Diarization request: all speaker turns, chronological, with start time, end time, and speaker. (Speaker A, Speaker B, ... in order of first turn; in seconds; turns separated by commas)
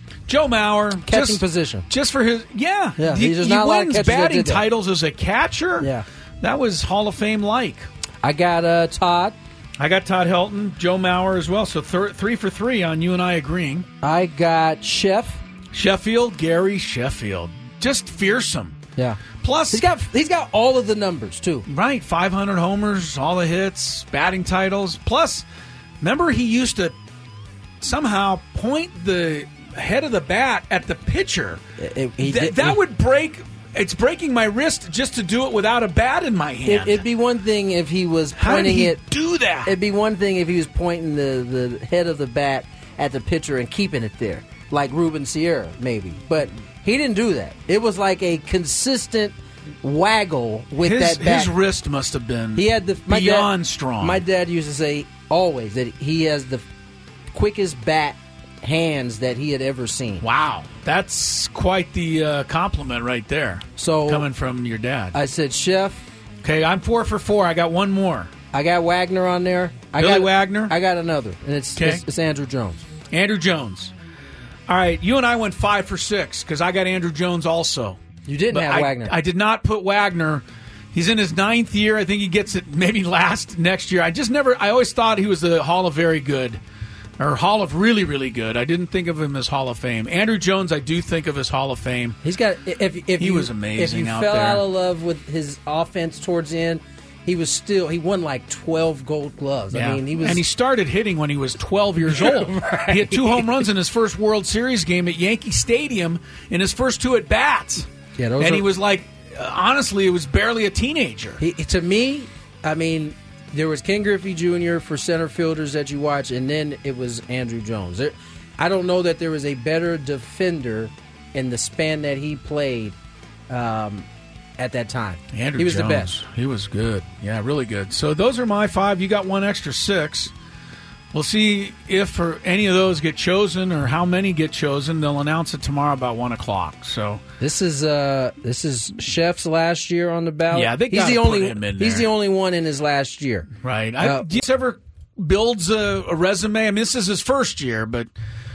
Speaker A: 0.3-7.9, Speaker B: 1.1-1.9, Speaker B: 3.0-4.7, Speaker B: 5.8-6.0, Speaker B: 8.2-9.3, Speaker A: 9.8-13.9, Speaker B: 14.0-15.4, Speaker A: 15.7-18.8, Speaker B: 19.0-21.6, Speaker A: 19.4-19.9, Speaker A: 21.7-25.4, Speaker A: 26.0-26.9, Speaker A: 27.8-31.6, Speaker B: 31.8-32.8, Speaker A: 32.2-37.0, Speaker B: 36.6-39.0, Speaker A: 38.4-39.8, Speaker B: 39.6-51.5, Speaker A: 50.8-54.2, Speaker B: 52.5-56.6, Speaker B: 57.3-60.2, Speaker A: 60.2-65.2, Speaker B: 63.8-64.3, Speaker B: 65.1-66.0, Speaker A: 66.4-68.3, Speaker B: 68.5-72.8, Speaker A: 70.0-70.7, Speaker A: 71.8-72.0, Speaker A: 73.1-73.9, Speaker A: 74.7-78.0, Speaker B: 78.2-79.2, Speaker A: 78.5-86.6, Speaker A: 87.2-92.2, Speaker B: 92.2-100.4, Speaker A: 93.2-94.7, Speaker A: 99.7-107.8, Speaker B: 102.0-103.7, Speaker B: 108.2-108.7, Speaker A: 108.4-111.4, Speaker B: 111.4-123.0, Speaker B: 123.5-124.1, Speaker B: 124.6-126.1, Speaker A: 125.3-130.3, Speaker A: 131.1-137.2, Speaker B: 137.4-144.2, Speaker A: 140.5-142.1, Speaker A: 143.6-148.1